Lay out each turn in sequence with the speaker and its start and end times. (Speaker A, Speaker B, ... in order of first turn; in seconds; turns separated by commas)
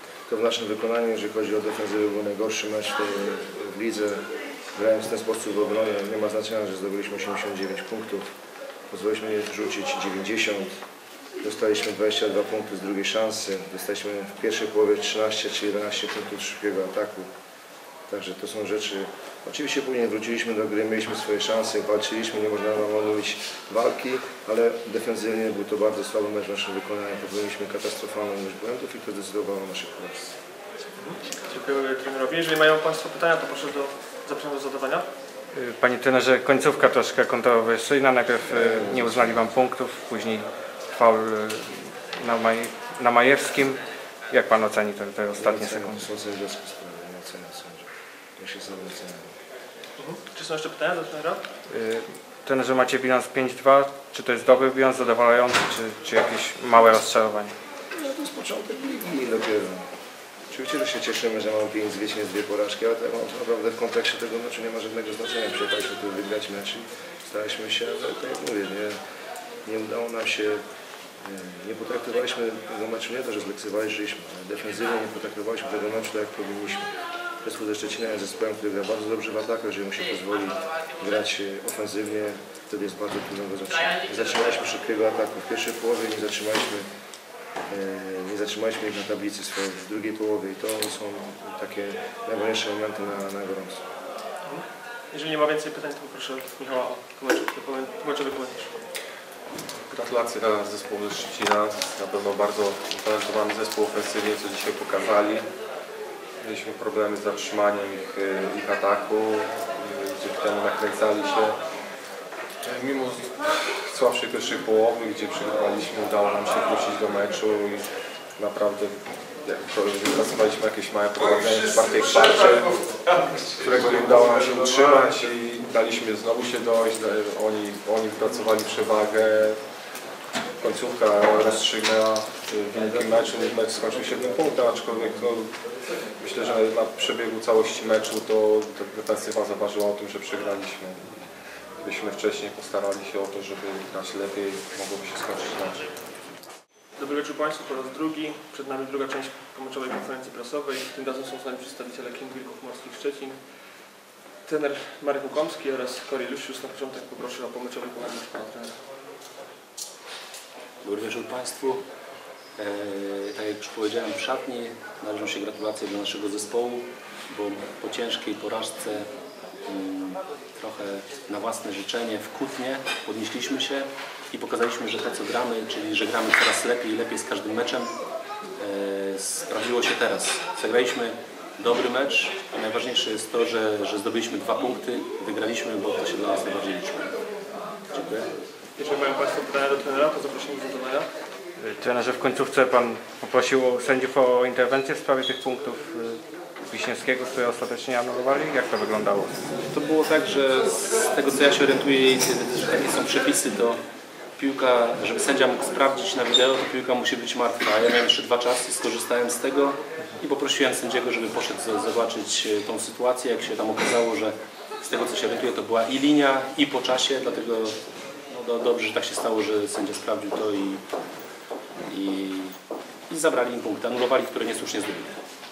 Speaker A: 0.3-8.3, Speaker A: 8.9-10.8, Speaker A: 11.4-17.3, Speaker A: 18.1-30.4, Speaker B: 31.0-35.0, Speaker C: 35.5-46.1, Speaker A: 38.5-39.4, Speaker A: 45.3-49.3, Speaker B: 50.0-51.4, Speaker C: 51.7-57.5, Speaker A: 57.9-59.9, Speaker A: 60.5-69.0, Speaker A: 69.6-70.6, Speaker A: 71.2-76.9, Speaker A: 77.4-86.9, Speaker A: 87.7-93.8, Speaker B: 94.4-98.8, Speaker D: 99.9-105.5, Speaker D: 106.4-111.6, Speaker D: 112.7-129.6, Speaker D: 130.6-145.9, Speaker B: 147.0-153.4, Speaker B: 154.4-158.8, Speaker E: 160.8-161.8, Speaker E: 162.6-169.1, Speaker E: 169.7-177.9, Speaker E: 178.6-187.1, Speaker E: 187.9-188.3, Speaker B: 188.8-191.1, Speaker C: 191.6-199.4, Speaker E: 199.6-203.8, Speaker E: 204.4-217.8, Speaker E: 218.3-220.8, Speaker E: 221.9-222.5, Speaker E: 223.1-225.2